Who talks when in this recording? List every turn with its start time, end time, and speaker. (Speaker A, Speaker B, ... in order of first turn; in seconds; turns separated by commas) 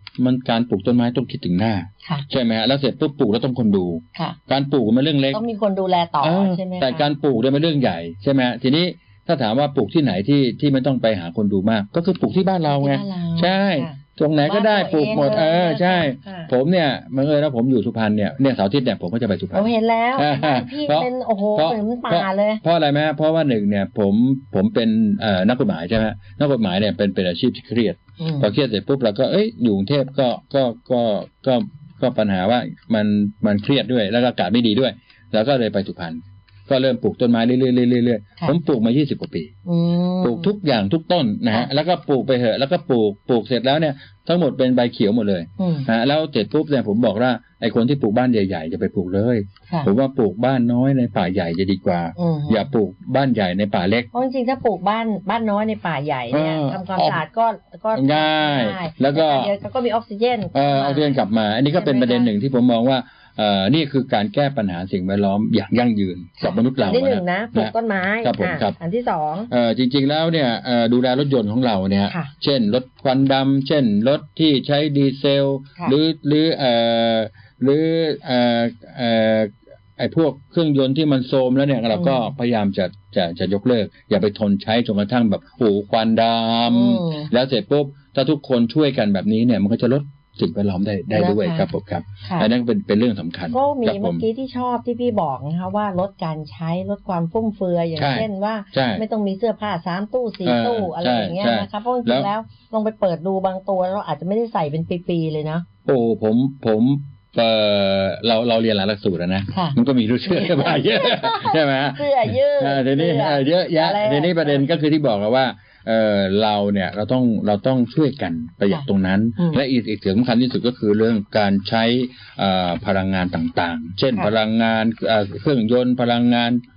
Speaker A: 0.2-5.4, Speaker B: 5.3-7.0, Speaker A: 6.2-39.5, Speaker B: 12.6-16.5, Speaker B: 19.5-22.6, Speaker B: 28.2-28.5, Speaker B: 39.6-40.5, Speaker A: 40.2-54.1, Speaker B: 45.6-45.9, Speaker B: 52.2-52.6, Speaker B: 54.1-61.2, Speaker A: 56.3-57.2, Speaker A: 57.9-59.5, Speaker A: 60.5-68.8, Speaker B: 61.7-62.3, Speaker B: 66.4-69.5, Speaker A: 69.5-94.2, Speaker B: 81.9-82.2, Speaker B: 86.7-87.3, Speaker B: 91.1-91.7, Speaker B: 92.2-92.5, Speaker B: 93.5-105.7, Speaker A: 98.0-99.0, Speaker A: 100.4-102.3, Speaker A: 105.8-126.6, Speaker B: 109.5-114.6